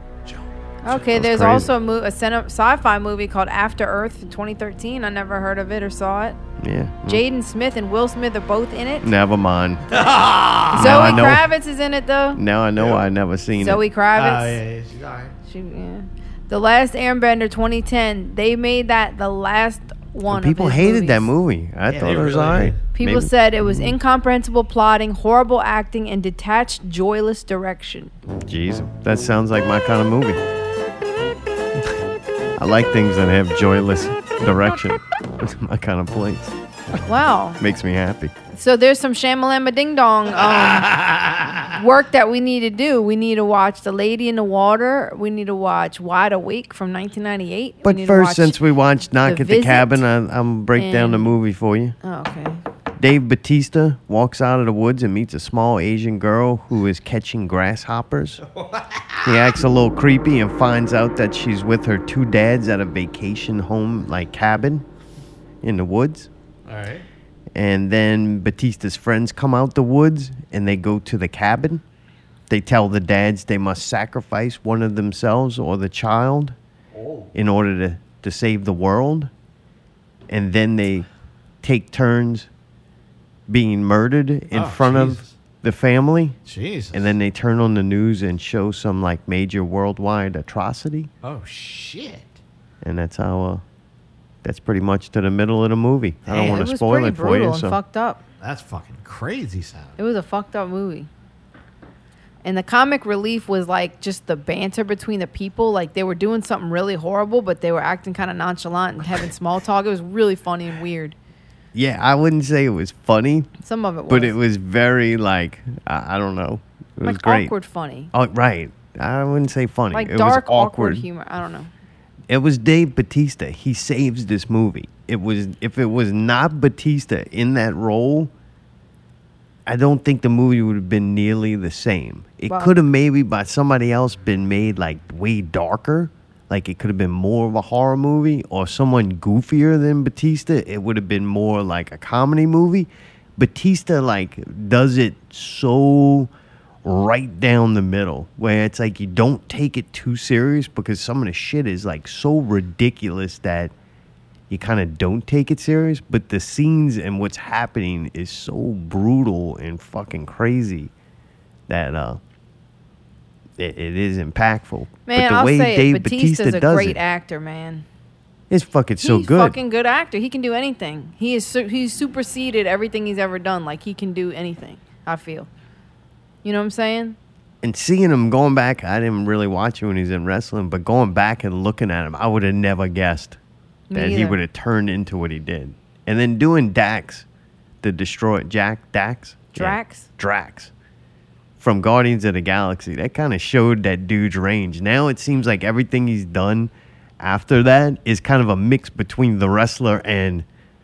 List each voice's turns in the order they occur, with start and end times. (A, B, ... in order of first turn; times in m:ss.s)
0:00.3-0:01.0 A
0:00.8-0:06.4 B
0:00.9-0:01.7 C
0:06.6-0:07.2 C
0:07.1-0:09.1 B
0:09.0-0:09.9 C
0:09.9-0:11.4 A
0:10.7-0:11.4 C
0:10.7-0:12.4 B
0:12.3-0:13.8 C
0:12.8-0:13.1 A
0:13.6-0:14.6 B
0:14.1-0:15.3 A
0:15.5-0:21.3 B
0:20.3-0:23.9 C
0:21.9-0:22.8 A
0:22.9-0:28.1 B
0:28.4-0:30.4 C
0:32.6-0:37.0 C
0:37.0-0:37.6 B
0:37.6-0:38.3 C
0:38.5-0:41.0 B
0:40.3-0:41.8 A
0:41.7-0:48.6 B
0:47.8-0:51.9 C
0:49.2-0:50.0 B
0:50.7-0:51.3 B
0:52.0-0:52.6 B
0:53.0-0:58.4 C
0:58.4-0:59.5 A
0:59.2-1:04.8 C
1:05.6-1:06.3 C
1:06.6-1:07.0 A
1:07.5-1:11.8 C
1:12.5-1:16.6 C
1:16.9-1:17.3 A
1:17.3-1:19.3 C
1:20.3-1:21.1 C
1:21.6-1:22.5 C
1:23.5-1:26.4 C
1:24.5-1:25.3 A
1:26.4-1:27.1 A
1:26.9-1:31.1 C
1:31.2-1:32.4 A
1:32.8-1:33.6 C
1:34.4-1:37.8 C
1:36.2-1:36.7 A
1:36.3-1:38.2 B
1:38.4-1:40.0 A
1:40.0-1:41.1 B
1:42.4-1:51.2 B
1:51.7-1:53.5 C
1:53.6-1:54.4 B
1:54.1-1:57.5 C
1:57.0-1:58.1 B
1:58.1-2:01.0 C
1:59.9-2:01.7 B
2:02.3-2:08.3 C
2:09.6-2:26.3 C
2:12.5-2:12.8 B
2:26.8-2:33.7 C
2:34.5-2:40.9 C
2:41.7-2:42.2 C
2:43.6-2:47.0 C
2:45.0-2:47.8 B
2:48.5-2:49.6 C
2:49.0-2:55.5 B
2:56.4-2:57.2 B
2:57.6-3:03.4 C
3:03.9-3:04.4 B
3:03.9-3:07.2 C
3:07.8-3:10.7 C
3:09.5-3:10.1 B
3:11.6-3:20.4 C